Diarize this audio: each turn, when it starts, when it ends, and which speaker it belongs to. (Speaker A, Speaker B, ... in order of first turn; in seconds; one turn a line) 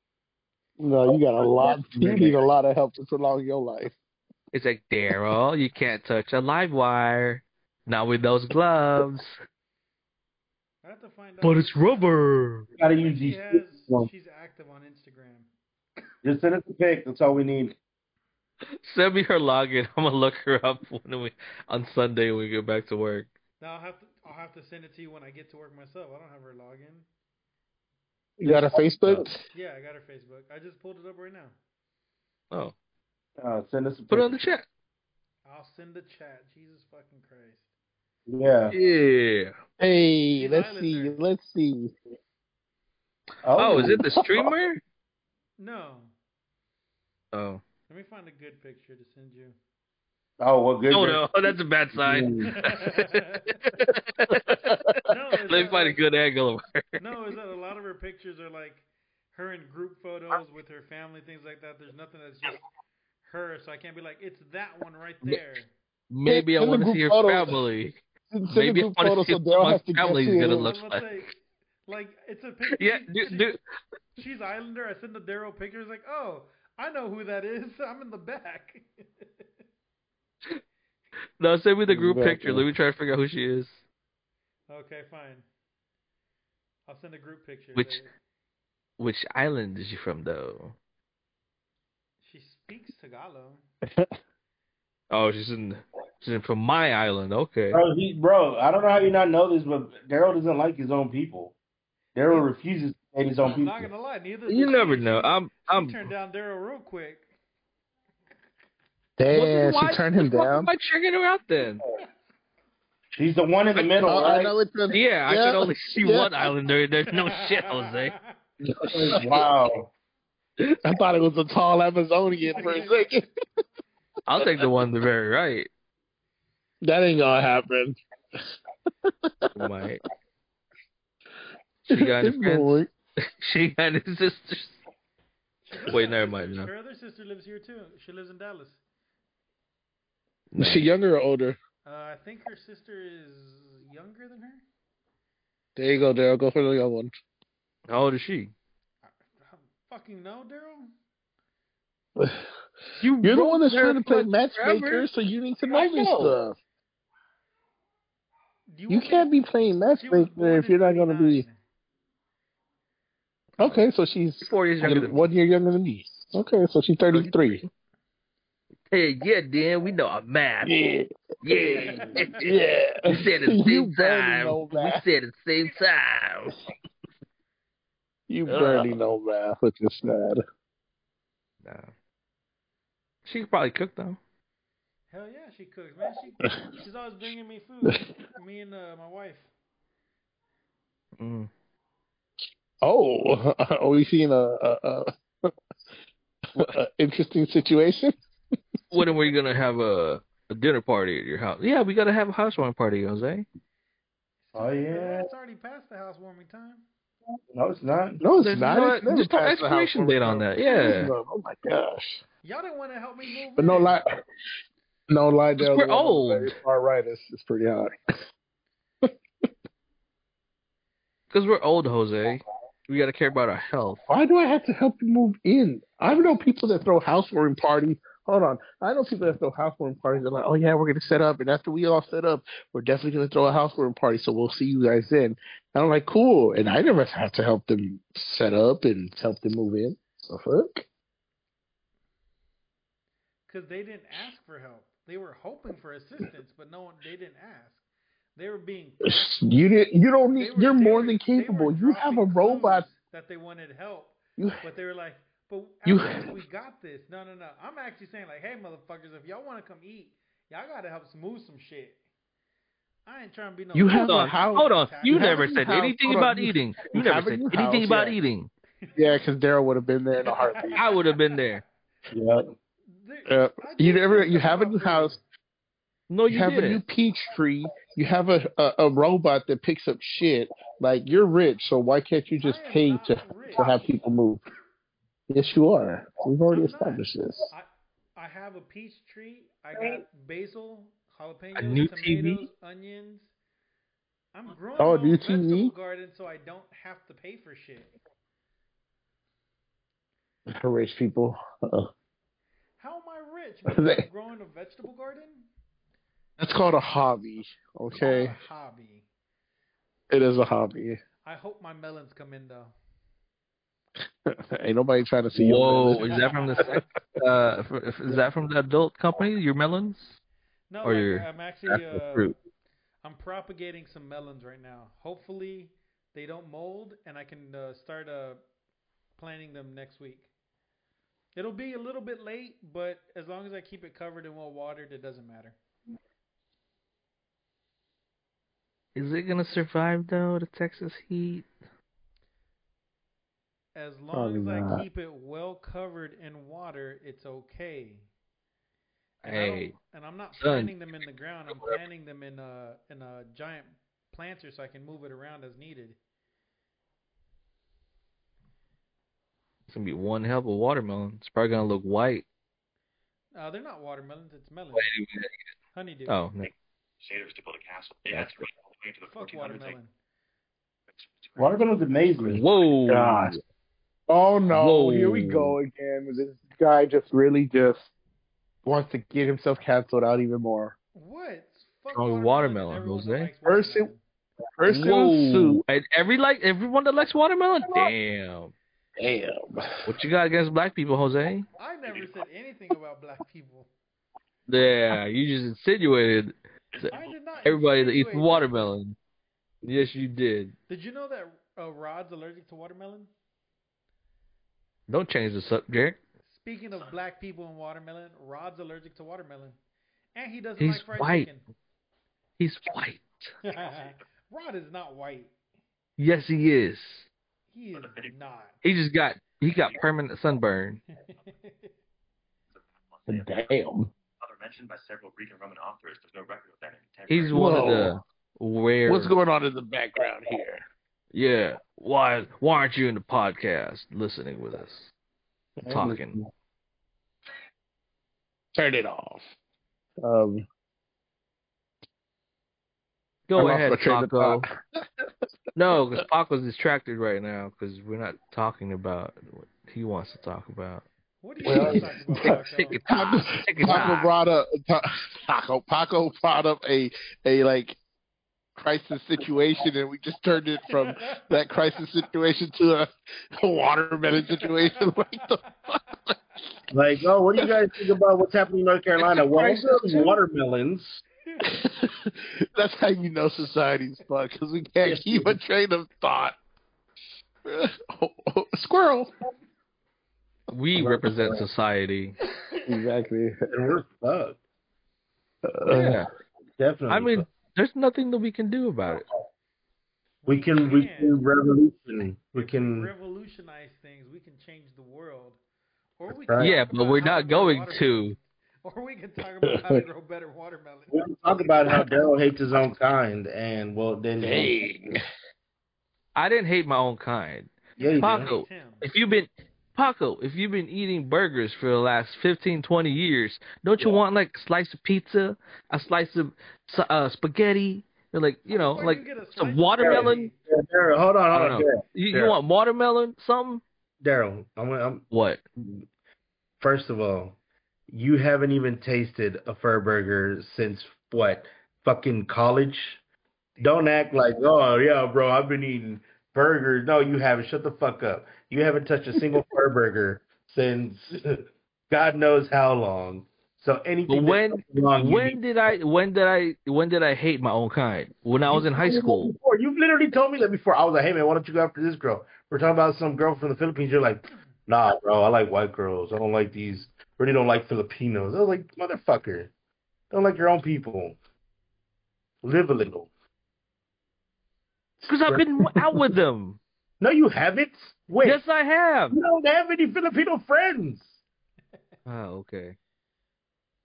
Speaker A: 0.8-4.0
Speaker B: 1.4-2.4
Speaker C: 4.5-9.3
Speaker D: 10.8-12.2
Speaker C: 11.4-12.7
Speaker B: 12.8-14.1
Speaker D: 12.8-15.5
Speaker B: 16.2-17.7
Speaker C: 18.8-23.3
Speaker D: 23.6-27.1
Speaker A: 28.4-29.4
Speaker B: 28.4-29.2
Speaker D: 29.5-31.6
Speaker B: 33.4-34.5
Speaker C: 34.1-34.6
Speaker D: 35.4-37.7
Speaker B: 38.3-38.7
Speaker C: 38.7-39.5
Speaker A: 39.8-41.9
Speaker D: 40.3-41.2
Speaker B: 43.4-44.0
Speaker C: 43.6-44.8
Speaker A: 43.7-44.5
Speaker D: 45.6-46.1
Speaker C: 47.3-47.6
Speaker D: 47.9-49.5
Speaker B: 50.4-51.2
Speaker C: 50.9-57.0
Speaker B: 51.9-52.5
Speaker D: 52.5-53.7
Speaker D: 55.0-56.0
Speaker D: 57.0-62.6
Speaker D: 63.2-65.7
Speaker C: 66.1-68.0
Speaker A: 66.2-67.6
Speaker A: 68.3-70.7
Speaker C: 68.5-71.0
Speaker D: 70.4-71.3
Speaker D: 71.8-73.5
Speaker C: 72.7-73.6
Speaker D: 74.2-79.4
Speaker C: 81.4-83.8
Speaker A: 81.9-82.6
Speaker D: 84.7-85.5
Speaker D: 86.9-88.1
Speaker C: 87.7-88.0
Speaker C: 89.0-90.7
Speaker D: 92.2-93.6
Speaker C: 95.1-97.8
Speaker B: 97.7-101.5
Speaker B: 102.1-103.9
Speaker D: 103.4-107.3
Speaker C: 104.5-106.1
Speaker A: 109.2-110.7
Speaker C: 109.3-111.8
Speaker B: 113.1-114.5
Speaker A: 113.8-116.5
Speaker C: 114.9-118.1
Speaker D: 117.1-118.3
Speaker B: 118.6-119.9
Speaker A: 118.7-119.5
Speaker A: 120.8-123.2
Speaker D: 122.4-123.1
Speaker C: 124.3-125.7
Speaker A: 126.8-128.4
Speaker A: 129.0-129.5
Speaker C: 129.5-130.0
Speaker C: 131.8-132.8
Speaker A: 131.9-132.9
Speaker C: 133.4-134.8
Speaker D: 135.6-138.8
Speaker C: 135.9-136.7
Speaker C: 140.5-140.9
Speaker A: 140.6-141.6
Speaker D: 141.8-144.6
Speaker A: 145.8-147.1
Speaker C: 147.9-148.5
Speaker D: 149.0-150.9
Speaker A: 152.2-152.4
Speaker C: 153.0-155.1
Speaker A: 153.2-156.6
Speaker C: 155.7-156.3
Speaker D: 158.7-159.3
Speaker A: 158.9-161.4
Speaker D: 159.9-161.6
Speaker A: 163.6-167.6
Speaker C: 164.4-165.2
Speaker C: 167.1-167.7
Speaker C: 168.9-170.8
Speaker A: 170.6-171.1
Speaker C: 171.4-172.5
Speaker A: 172.3-175.0
Speaker C: 173.1-176.6
Speaker A: 178.3-180.4
Speaker C: 178.5-178.9
Speaker C: 181.6-181.9
Speaker C: 183.2-184.2
Speaker D: 185.1-189.5
Speaker C: 191.2-191.5
Speaker A: 192.8-195.5
Speaker A: 196.5-198.1
Speaker C: 198.9-203.4
Speaker D: 204.4-206.8
Speaker B: 204.6-205.3
Speaker B: 207.5-208.2
Speaker A: 208.2-212.2
Speaker C: 208.4-211.1
Speaker D: 212.4-214.0
Speaker A: 213.5-214.0
Speaker A: 215.1-217.9
Speaker C: 215.6-216.5
Speaker C: 221.3-224.0
Speaker A: 224.1-240.8
Speaker D: 243.5-247.8
Speaker D: 248.3-249.7
Speaker A: 249.0-252.8
Speaker D: 250.3-262.0
Speaker A: 254.4-254.6
Speaker A: 255.8-256.3
Speaker D: 263.1-265.7
Speaker A: 263.7-268.2
Speaker C: 264.0-268.5
Speaker D: 268.8-269.2
Speaker A: 268.9-270.8
Speaker D: 270.2-271.2
Speaker C: 270.8-271.6
Speaker B: 272.1-272.5
Speaker D: 272.9-275.2
Speaker A: 273.2-275.1
Speaker C: 276.1-276.8
Speaker A: 276.3-284.4
Speaker D: 282.4-283.9
Speaker A: 285.3-287.5
Speaker D: 286.5-293.3
Speaker C: 291.6-292.5
Speaker D: 294.3-297.9
Speaker A: 294.8-295.7
Speaker A: 300.5-301.9
Speaker D: 302.8-305.5
Speaker A: 303.7-304.0
Speaker A: 306.4-308.4
Speaker D: 308.0-309.0
Speaker A: 310.1-311.0
Speaker D: 311.2-312.7
Speaker A: 314.2-316.8
Speaker C: 315.3-320.2
Speaker D: 320.7-322.3
Speaker C: 320.8-322.3
Speaker D: 323.0-328.4
Speaker D: 329.2-330.3
Speaker D: 331.4-335.6
Speaker C: 338.9-341.5
Speaker D: 343.7-348.1
Speaker A: 344.1-344.8
Speaker C: 349.2-349.7
Speaker D: 349.2-356.0
Speaker C: 350.4-350.7
Speaker C: 359.7-362.2
Speaker D: 363.3-364.9
Speaker C: 364.7-365.3
Speaker D: 365.7-366.2
Speaker C: 366.1-366.5
Speaker E: 366.4-369.8
Speaker C: 368.1-368.4
Speaker D: 369.1-369.9
Speaker E: 370.9-372.9
Speaker B: 371.4-372.4
Speaker C: 372.3-373.4
Speaker A: 372.9-373.3
Speaker A: 374.1-377.9
Speaker C: 374.5-375.6
Speaker A: 378.6-380.7
Speaker D: 380.9-384.0
Speaker C: 381.9-383.3
Speaker A: 383.4-383.9
Speaker A: 384.6-385.6
Speaker C: 384.6-388.5
Speaker A: 387.6-387.9
Speaker A: 389.0-389.8
Speaker C: 389.9-391.4
Speaker D: 391.6-393.7
Speaker E: 391.9-392.2
Speaker C: 394.5-396.9
Speaker E: 396.7-397.4
Speaker D: 396.9-398.6
Speaker C: 397.4-398.9
Speaker C: 399.6-400.5
Speaker D: 400.7-403.1
Speaker C: 404.9-406.0
Speaker D: 406.3-409.6
Speaker D: 410.1-411.4
Speaker C: 410.6-411.3
Speaker C: 412.4-413.3
Speaker D: 413.4-415.3
Speaker E: 413.5-414.0
Speaker C: 416.0-417.1
Speaker D: 417.5-418.5
Speaker E: 417.7-418.1
Speaker C: 418.6-420.8
Speaker D: 421.0-421.7
Speaker E: 422.5-423.6
Speaker A: 423.1-423.9
Speaker E: 424.2-427.9
Speaker C: 427.1-429.1
Speaker A: 427.3-427.9
Speaker A: 428.9-430.6
Speaker C: 431.1-434.9
Speaker B: 435.6-436.3
Speaker C: 435.7-436.1
Speaker A: 438.5-439.2
Speaker A: 440.0-440.4
Speaker C: 443.3-444.5
Speaker A: 443.4-444.5
Speaker C: 445.5-450.8
Speaker D: 451.2-452.8
Speaker A: 451.4-457.8
Speaker C: 451.5-454.1
Speaker A: 458.6-466.1
Speaker D: 460.8-461.2
Speaker D: 464.1-465.8
Speaker B: 466.7-471.0
Speaker C: 469.0-470.1
Speaker D: 471.3-471.6
Speaker A: 471.5-476.4
Speaker B: 474.8-475.4
Speaker A: 477.4-479.1
Speaker C: 480.5-482.1
Speaker B: 480.7-481.4
Speaker A: 482.6-483.4
Speaker B: 483.5-484.4
Speaker A: 485.5-486.0
Speaker C: 485.7-486.1
Speaker B: 486.6-487.3
Speaker C: 486.9-489.1
Speaker D: 490.2-491.2
Speaker B: 490.3-492.9
Speaker D: 492.3-495.4
Speaker D: 496.0-501.0
Speaker B: 496.1-496.5
Speaker C: 496.4-498.1
Speaker A: 499.5-499.8
Speaker B: 500.9-504.6
Speaker A: 504.2-505.0
Speaker C: 506.1-520.3
Speaker D: 507.8-508.9
Speaker B: 507.8-508.3
Speaker D: 518.5-520.3
Speaker B: 519.8-522.4
Speaker C: 521.3-523.6
Speaker B: 524.0-525.0
Speaker C: 525.1-525.4
Speaker B: 526.6-527.4
Speaker B: 527.9-533.0
Speaker B: 533.6-545.4
Speaker C: 544.1-549.3
Speaker B: 548.5-559.5
Speaker B: 560.1-561.2
Speaker B: 562.4-563.1
Speaker C: 565.1-566.6
Speaker B: 567.0-568.4
Speaker C: 568.2-569.2
Speaker B: 569.1-571.2
Speaker C: 572.0-572.8